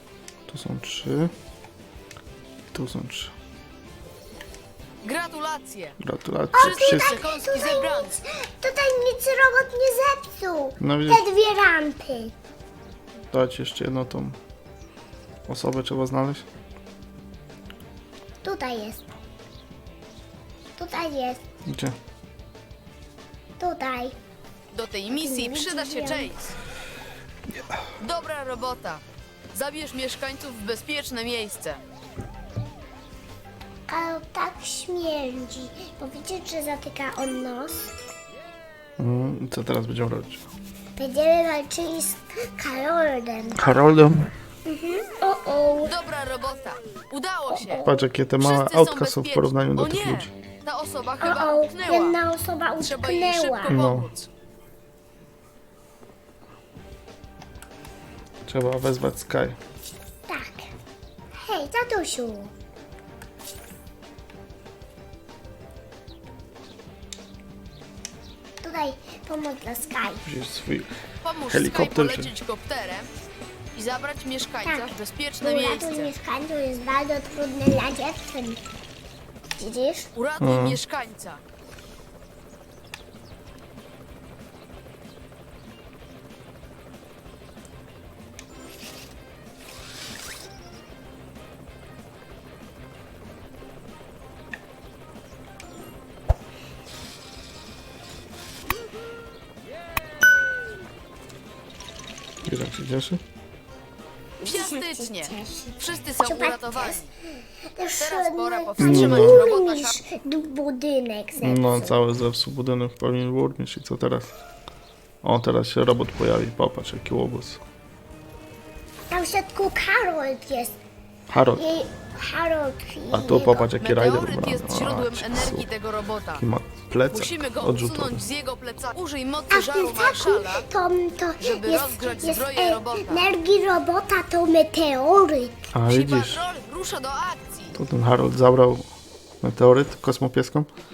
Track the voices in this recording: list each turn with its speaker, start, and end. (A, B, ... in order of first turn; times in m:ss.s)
0:00.5-0:01.3 A
0:02.7-0:03.3 A
0:05.0-0:06.0 B
0:06.0-0:07.2 A
0:06.5-0:12.3 C
0:06.5-0:08.2 B
0:10.8-0:11.3 A
0:13.3-0:14.4 A
0:15.5-0:16.4 A
0:18.4-0:19.1 C
0:20.8-0:21.4 C
0:21.7-0:22.0 A
0:23.6-0:24.2 C
0:24.7-0:26.5 B
0:25.1-0:26.3 C
0:28.0-0:31.8 B
0:33.9-0:37.9 C
0:39.0-0:40.5 A
0:41.0-0:43.8 C
0:43.6-0:44.3 A
0:44.7-0:46.0 C
0:45.8-0:47.8 B
0:47.5-0:48.0 C
0:47.8-0:50.3 A
0:48.4-0:52.2 B
0:51.2-0:53.8 C
0:52.8-0:54.3 B
0:53.7-0:54.1 A
0:58.5-0:59.6 A
1:00.3-1:00.7 C
1:01.4-1:02.5 C
1:08.6-1:10.3 C
1:10.2-1:10.9 A
1:11.2-1:13.1 B
1:11.5-1:12.3 A
1:13.8-1:16.1 B
1:14.6-1:18.6 C
1:19.6-1:20.1 C
1:20.2-1:21.4 B
1:20.4-1:20.8 A
1:42.4-1:43.2 A
1:44.4-1:47.1 C
1:44.4-1:47.1 B
1:47.7-1:52.0 C
1:48.0-1:50.0 B
1:48.8-1:49.5 A
1:51.4-1:54.3 A
1:55.2-1:57.6 A
1:59.1-2:00.8 C
2:01.3-2:01.6 A
2:01.6-2:03.7 C
2:03.1-2:05.7 A
2:03.8-2:06.4 B
2:06.4-2:08.2 A
2:07.1-2:10.7 B
2:09.5-2:15.7 C
2:11.4-2:13.3 B
2:15.7-2:16.4 A
2:15.9-2:17.8 B
2:17.8-2:18.9 A
2:19.4-2:20.7 A